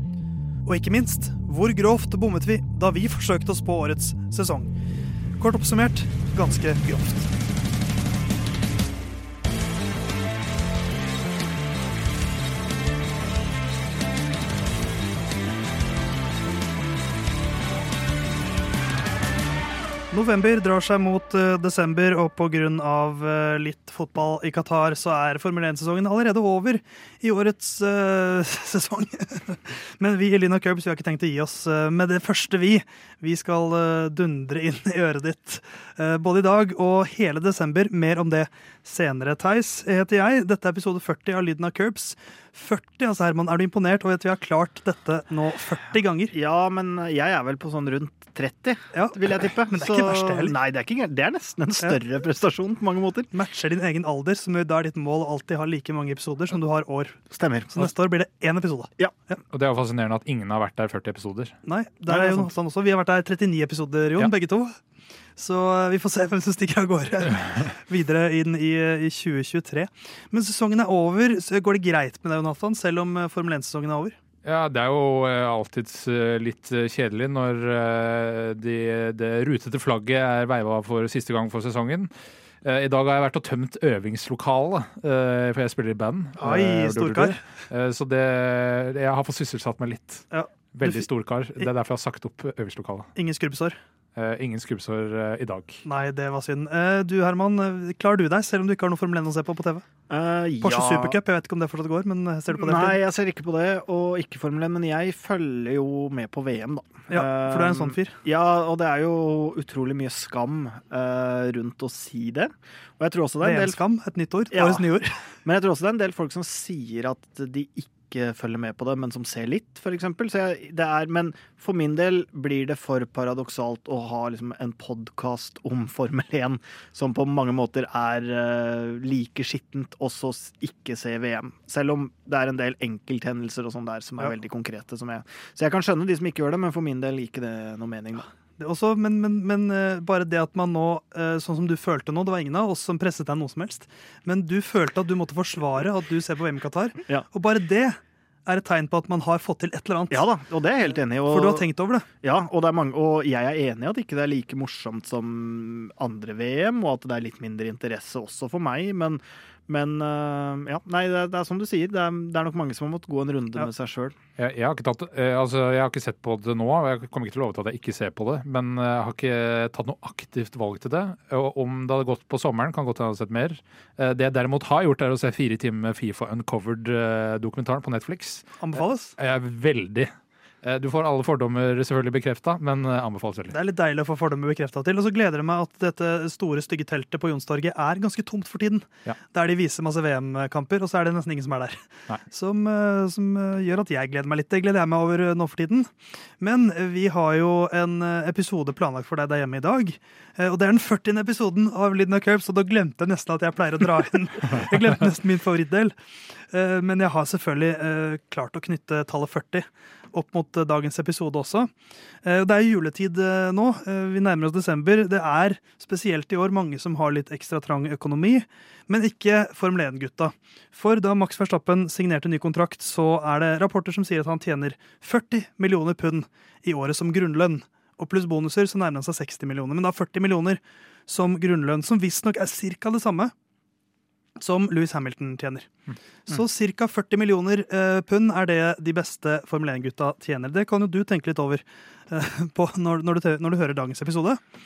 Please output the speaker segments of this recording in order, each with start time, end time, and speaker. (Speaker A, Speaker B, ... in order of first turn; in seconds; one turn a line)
Speaker A: 0.6-4.7
Speaker A: 5.4-7.3
Speaker A: 20.1-46.3
Speaker B: 46.3-53.3
Speaker A: 48.9-50.5
Speaker A: 53.3-57.2
Speaker B: 57.3-57.9
Speaker A: 57.7-59.4
Speaker C: 59.5-61.5
Speaker A: 61.6-64.8
Speaker B: 62.1-62.5
Speaker A: 65.3-74.2
Speaker C: 74.4-82.1
Speaker C: 82.6-93.1
Speaker A: 86.4-87.4
Speaker A: 90.3-91.0
Speaker A: 93.1-93.8
Speaker C: 94.1-95.8
Speaker A: 95.8-99.8
Speaker B: 100.1-101.2
Speaker A: 100.6-103.0
Speaker B: 102.5-113.8
Speaker A: 107.1-108.2
Speaker A: 113.4-115.2
Speaker B: 114.5-114.9
Speaker B: 115.4-138.2
Speaker A: 138.6-150.2
Speaker B: 150.1-151.7
Speaker A: 151.3-152.1
Speaker B: 152.2-164.1
Speaker C: 164.4-178.6
Speaker A: 178.6-179.1
Speaker C: 179.2-180.1
Speaker C: 180.6-183.5
Speaker A: 183.5-211.7
Speaker A: 212.2-233.3
Speaker A: 234.4-235.7
Speaker A: 236.3-244.4